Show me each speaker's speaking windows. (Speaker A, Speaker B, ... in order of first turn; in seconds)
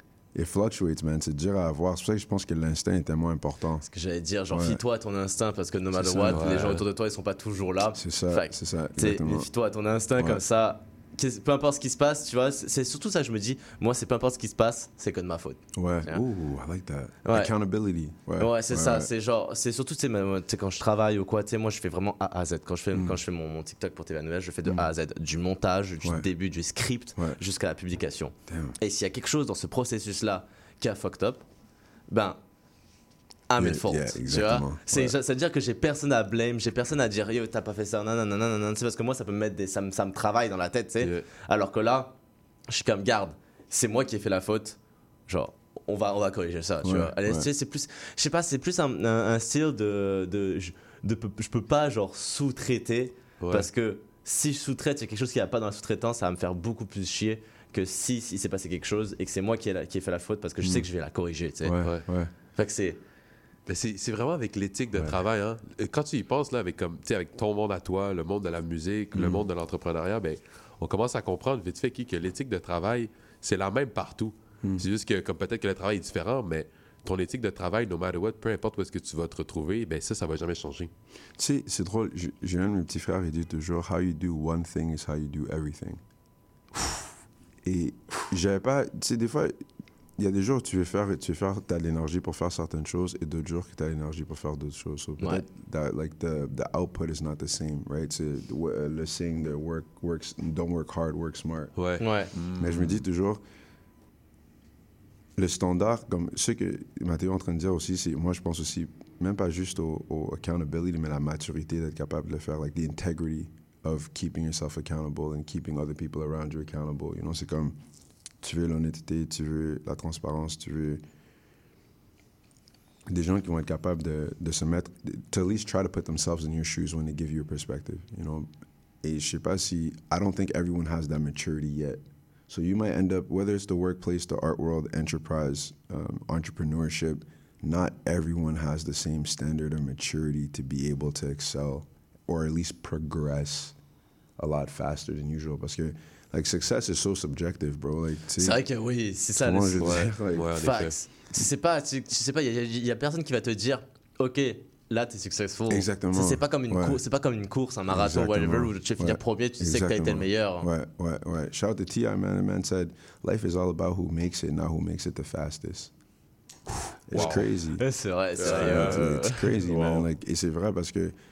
Speaker A: 0.3-3.9, 4.5-4.8, 5.9-6.7, 7.9-9.5, 10.2-10.4, 15.8-19.1, 26.0-26.3, 28.5-28.8, 33.6-35.1, 46.8-47.5, 61.6-62.3, 69.2-69.4, 81.4-86.0, 87.6-89.6, 90.2-101.7, 102.6-103.4, 105.4-117.8, 118.4-121.0, 123.1-128.5, 129.0-143.8, 144.4-148.6, 149.4-150.5, 155.7-157.0, 157.9-165.9, 167.1-167.8, 168.4-171.2
Speaker B: 3.9-16.2, 17.2-17.5, 18.4-31.4, 32.1-32.4, 33.5-42.1, 42.7-61.8, 62.6-63.0, 102.0-102.3, 148.4-160.7, 167.8-169.5
Speaker C: 6.3-6.8, 41.0-41.2, 53.4-53.7, 63.7-80.9, 101.8-103.0, 149.8-150.9, 167.1-167.5, 168.4-170.1